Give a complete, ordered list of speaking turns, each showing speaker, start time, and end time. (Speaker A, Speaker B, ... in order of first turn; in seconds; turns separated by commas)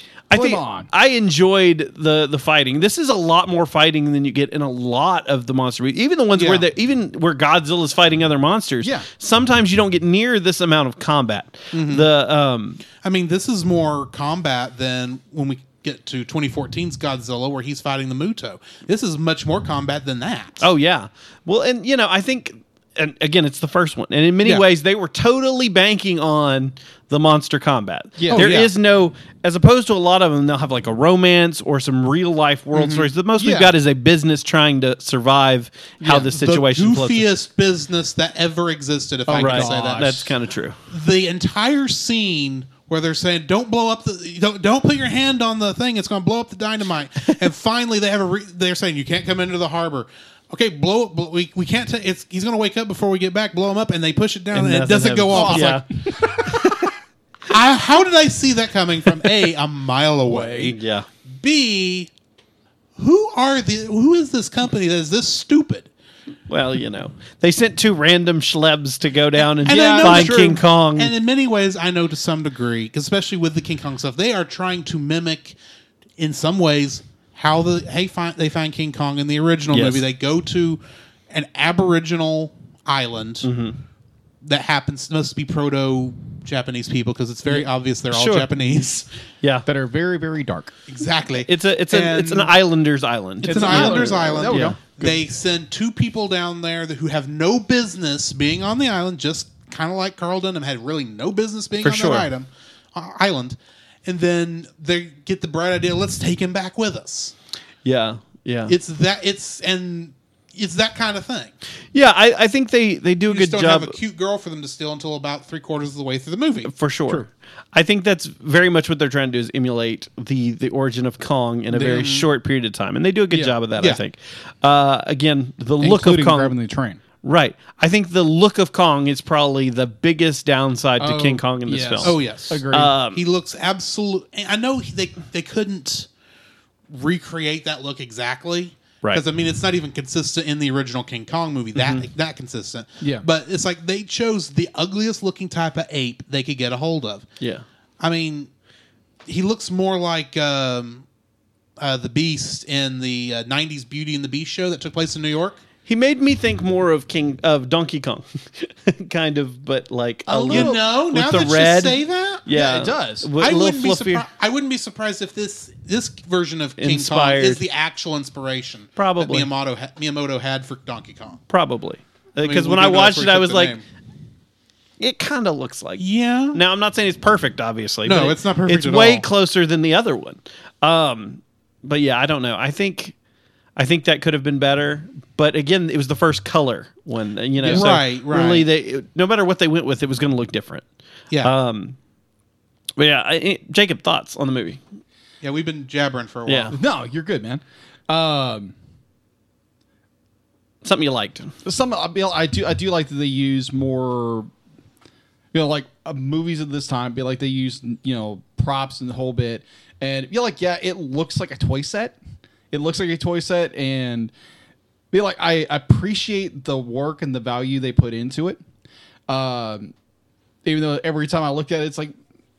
Speaker A: 0.3-12.8, Speaker B: 0.3-0.9, Speaker C: 6.3-6.7, Speaker B: 8.8-9.1, Speaker C: 11.7-12.1, Speaker C: 13.0-20.7, Speaker A: 20.6-37.3, Speaker B: 28.2-28.5, Speaker C: 28.3-28.7, Speaker C: 32.8-33.1, Speaker B: 33.4-33.7, Speaker C: 36.0-40.3, Speaker B: 39.3-40.3, Speaker A: 39.4-40.8, Speaker C: 40.9-55.8, Speaker A: 54.5-55.9, Speaker B: 55.3-56.7, Speaker A: 56.4-56.9, Speaker C: 57.5-60.8, Speaker B: 60.3-60.7, Speaker A: 60.6-61.1, Speaker C: 61.4-62.1, Speaker C: 63.0-65.9, Speaker A: 66.5-71.1, Speaker C: 69.6-75.6, Speaker B: 69.7-70.5, Speaker C: 76.2-83.5, Speaker A: 79.7-80.0, Speaker A: 83.4-83.8, Speaker C: 84.4-89.1, Speaker A: 88.1-88.5, Speaker B: 89.7-90.8, Speaker C: 90.9-92.5, Speaker A: 91.5-94.8, Speaker C: 93.4-107.3, Speaker B: 93.5-95.1, Speaker A: 101.8-102.3, Speaker A: 107.8-108.8, Speaker C: 108.7-111.5, Speaker A: 111.9-113.9, Speaker C: 113.3-116.7, Speaker A: 116.7-126.5, Speaker B: 121.7-122.2, Speaker C: 121.9-122.3, Speaker B: 125.8-127.0, Speaker A: 127.2-132.2, Speaker B: 131.0-132.9, Speaker C: 132.0-136.1, Speaker A: 132.7-133.2, Speaker C: 136.9-147.3, Speaker A: 141.8-142.0, Speaker A: 147.4-147.7, Speaker C: 148.0-148.5, Speaker C: 149.3-151.1, Speaker C: 151.8-155.6, Speaker A: 155.9-164.2, Speaker B: 160.3-160.8, Speaker C: 160.5-162.4, Speaker B: 162.5-163.3, Speaker C: 163.4-171.4, Speaker A: 166.8-167.6, Speaker A: 169.0-169.5, Speaker A: 171.5-173.8, Speaker C: 172.4-173.8, Speaker A: 175.0-183.2, Speaker C: 176.0-176.6, Speaker C: 178.1-179.3, Speaker A: 183.8-190.8, Speaker B: 187.6-187.9, Speaker C: 187.7-188.7, Speaker A: 191.4-192.0, Speaker A: 193.0-194.8, Speaker C: 195.4-196.8, Speaker A: 196.5-196.7, Speaker B: 196.7-198.8, Speaker A: 200.8-201.5, Speaker B: 201.6-204.5, Speaker B: 205.5-212.2, Speaker B: 212.7-214.3, Speaker B: 215.1-218.6, Speaker B: 219.3-219.9, Speaker B: 220.7-222.1